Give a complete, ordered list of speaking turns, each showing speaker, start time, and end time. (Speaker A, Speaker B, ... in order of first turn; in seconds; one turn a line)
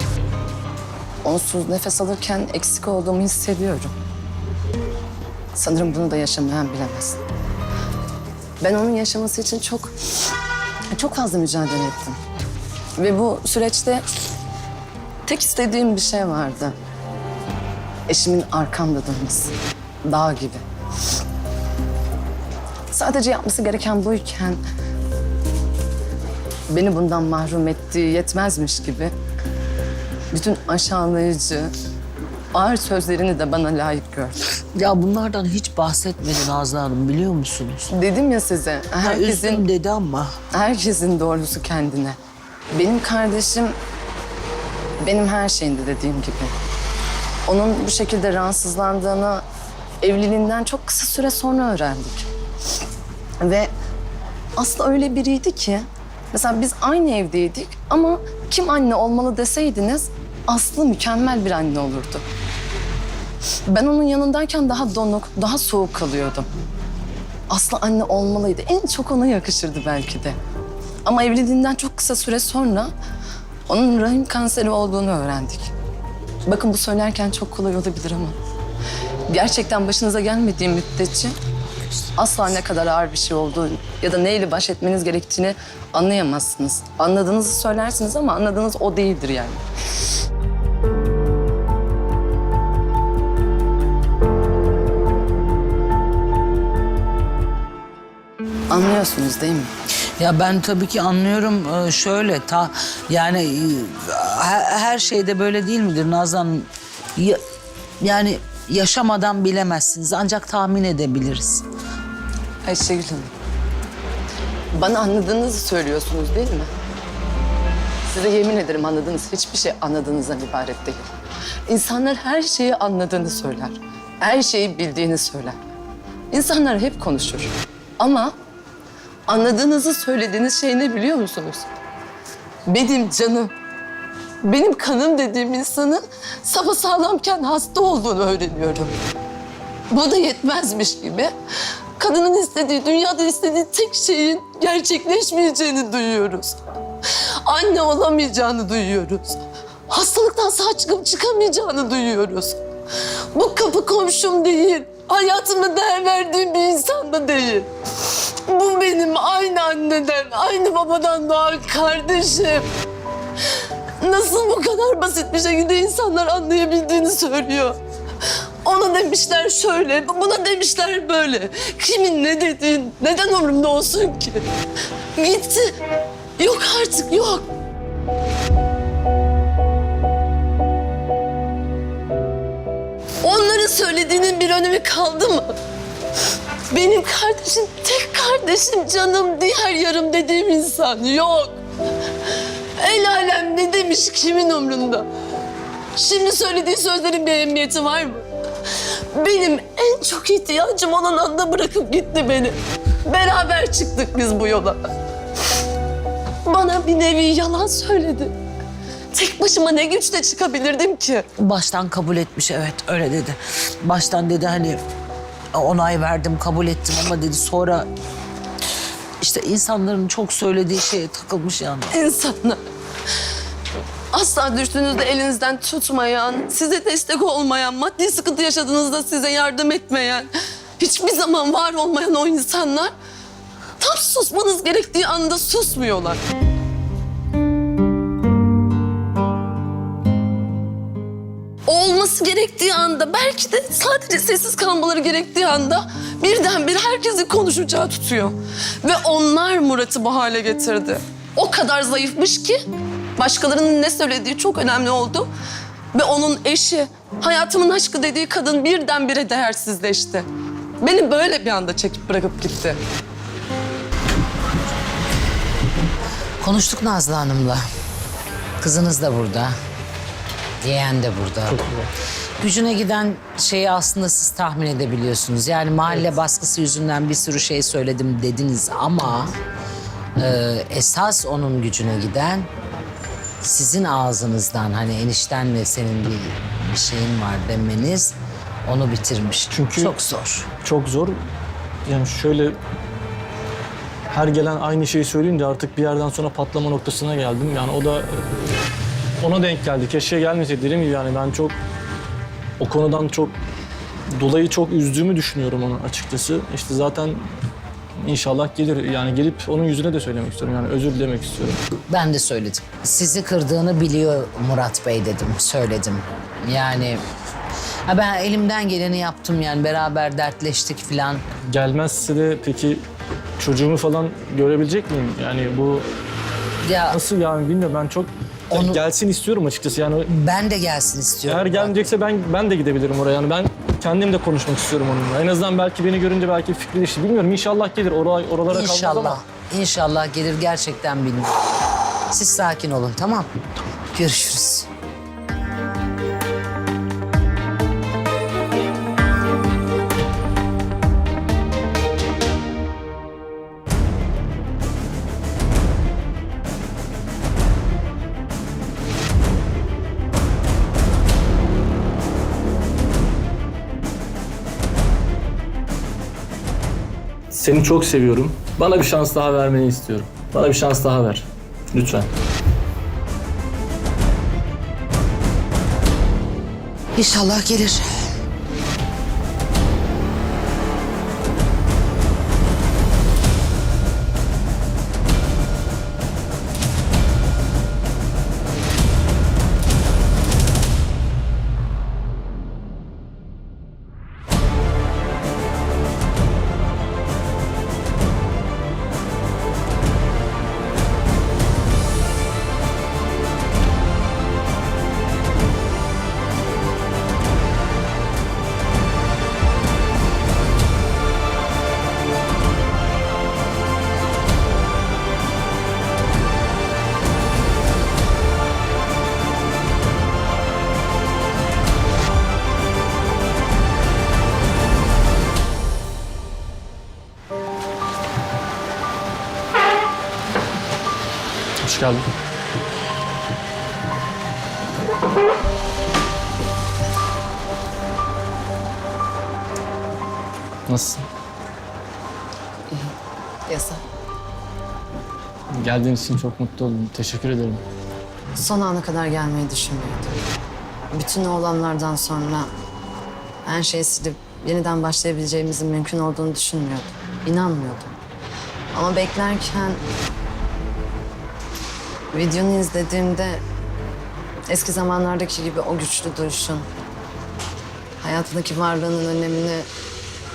Speaker A: 1.2-3.9
Speaker A: 5.5-7.2
Speaker A: 8.6-9.9
Speaker A: 10.9-12.2
Speaker A: 13.0-14.1
Speaker A: 15.3-16.8
Speaker A: 18.1-19.5
Speaker A: 20.1-20.6
Speaker A: 22.9-24.6
Speaker A: 26.7-29.1
Speaker A: 30.3-31.7
Speaker A: 32.5-34.4
Speaker B: 34.8-37.9
Speaker A: 37.9-39.6
Speaker B: 39.0-40.4
Speaker A: 40.5-42.2
Speaker A: 42.7-43.8
Speaker A: 45.0-46.5
Speaker A: 47.5-49.4
Speaker A: 50.0-52.3
Speaker A: 53.4-53.7
Speaker A: 54.6-62.2
Speaker A: 63.7-66.5
Speaker A: 67.5-70.4
Speaker A: 71.0-72.9
Speaker A: 73.7-75.7
Speaker A: 76.5-78.4
Speaker A: 79.3-81.4
Speaker A: 82.2-89.6
Speaker A: 98.7-99.7
Speaker B: 100.2-107.4
Speaker B: 108.0-111.6
Speaker A: 112.7-113.3
Speaker A: 114.8-116.7
Speaker A: 118.1-121.1
Speaker A: 121.7-125.6
Speaker A: 126.3-128.3
Speaker A: 129.3-131.7
Speaker A: 132.7-133.5
Speaker A: 134.4-139.0
Speaker A: 139.9-141.3
Speaker A: 142.0-146.6
Speaker A: 147.1-152.6
Speaker A: 153.3-157.7
Speaker A: 158.5-162.7
Speaker A: 164.0-167.8
Speaker A: 168.7-174.4
Speaker A: 175.2-175.7
Speaker A: 176.4-177.4
Speaker A: 183.2-185.5
Speaker A: 186.7-191.6
Speaker A: 192.8-195.1
Speaker A: 196.0-198.2
Speaker A: 199.1-204.8
Speaker A: 206.5-208.3
Speaker A: 209.1-211.3
Speaker B: 211.4-214.8
Speaker B: 215.5-217.9
Speaker B: 219.2-221.9
Speaker A: 221.9-222.6
Speaker A: 224.1-232.9
Speaker A: 233.8-236.2
Speaker A: 241.7-252.6
Speaker A: 253.2-255.3
Speaker A: 255.9-260.3
Speaker A: 260.8-262.8
Speaker B: 266.4-267.6
Speaker B: 268.6-269.6
Speaker B: 270.6-271.6
Speaker C: 271.5-271.9
Speaker B: 272.4-279.3
Speaker B: 280.2-282.5
Speaker B: 283.4-290.5
Speaker C: 289.5-289.9
Speaker C: 290.6-291.1
Speaker C: 291.9-292.6
Speaker C: 294.1-298.6
Speaker C: 299.2-301.6
Speaker C: 302.6-303.4
Speaker C: 304.1-307.2
Speaker C: 308.0-311.6
Speaker B: 311.9-317.0
Speaker B: 317.9-321.2
Speaker C: 321.5-322.8
Speaker C: 323.4-325.9
Speaker B: 326.6-327.0
Speaker C: 326.9-330.1
Speaker B: 328.5-328.8
Speaker B: 330.1-331.9
Speaker C: 331.3-339.2
Speaker B: 338.5-341.4
Speaker B: 342.1-343.3
Speaker B: 343.9-344.7
Speaker C: 367.3-372.1
Speaker B: 377.0-378.1
Speaker C: 431.6-432.1
Speaker C: 440.7-441.1
Speaker A: 443.5-443.8
Speaker C: 445.6-447.6
Speaker A: 448.4-450.2
Speaker A: 450.9-452.5
Speaker A: 453.5-457.9
Speaker A: 458.7-459.8
Speaker A: 462.1-463.4
Speaker A: 464.5-466.7
Speaker A: 468.0-469.7